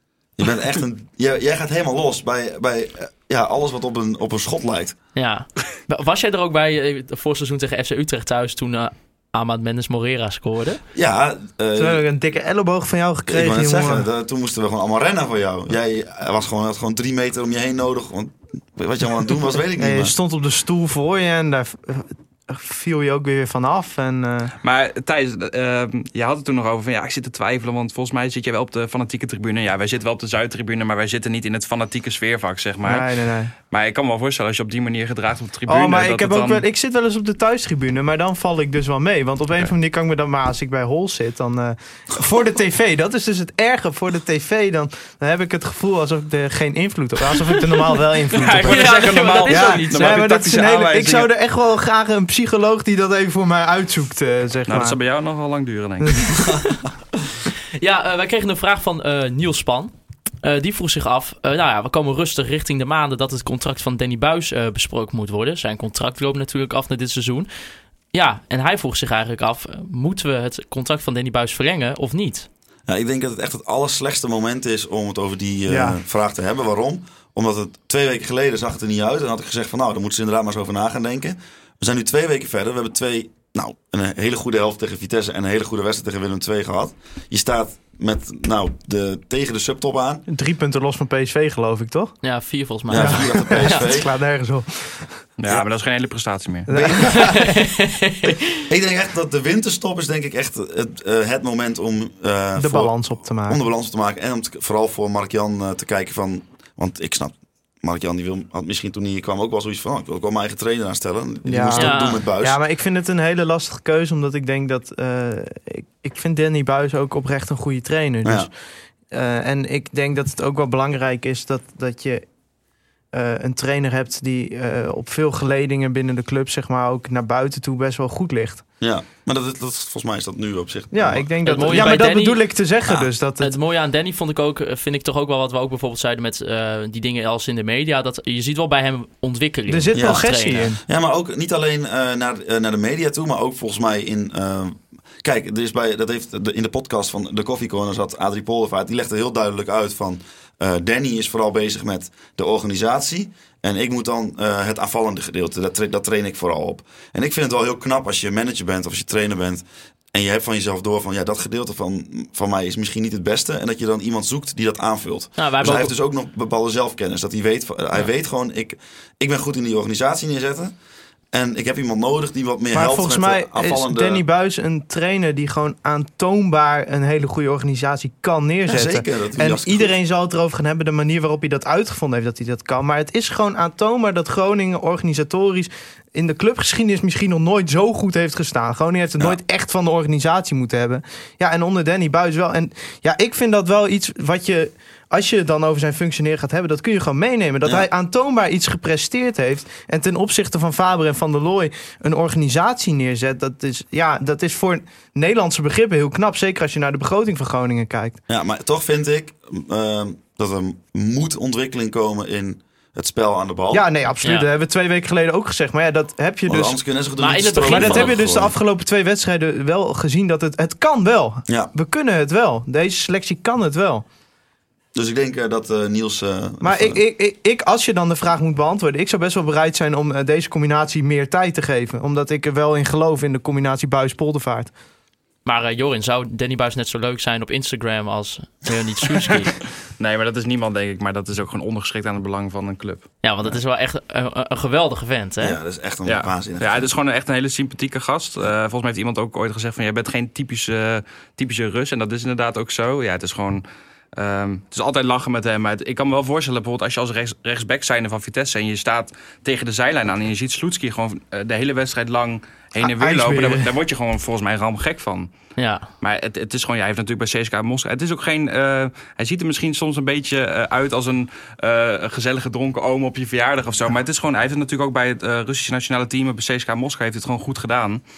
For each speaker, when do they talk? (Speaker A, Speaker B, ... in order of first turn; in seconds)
Speaker A: 0.4-5.0, 10.9-12.0, 13.3-20.1, 72.9-90.3, 92.9-94.1, 96.7-97.3, 98.6-103.0, 103.5-112.6, 118.2-118.5, 128.8-132.0, 139.9-170.7, 171.3-174.2, 178.7-179.9, 208.3-213.8, 216.5-218.6, 224.9-227.0, 245.4-246.9
Speaker B: 5.2-10.8, 48.6-50.3, 56.3-56.7, 57.7-59.9, 60.4-67.5, 68.1-72.5, 92.2-93.9, 97.0-98.6, 111.8-112.2, 131.4-132.4, 133.4-140.7, 165.4-165.9, 214.2-214.5, 217.2-218.2, 235.5-239.6, 243.2-245.6, 265.6-265.9
Speaker C: 11.8-14.1, 19.8-24.5, 32.8-33.5, 35.7-55.0, 56.0-56.5, 75.7-76.0, 90.3-92.2, 92.9-95.1, 96.7-97.6, 102.6-103.6, 111.5-118.5, 119.1-122.2, 123.1-128.6, 130.9-133.5, 139.7-140.8, 172.7-208.2, 213.7-216.8, 217.6-224.1, 226.6-234.7, 262.8-263.7
Speaker D: 24.6-33.1, 33.7-36.6, 48.3-51.3, 54.7-56.4, 95.4-96.7, 240.0-243.1, 246.1-253.6, 254.2-265.3, 266.0-278.0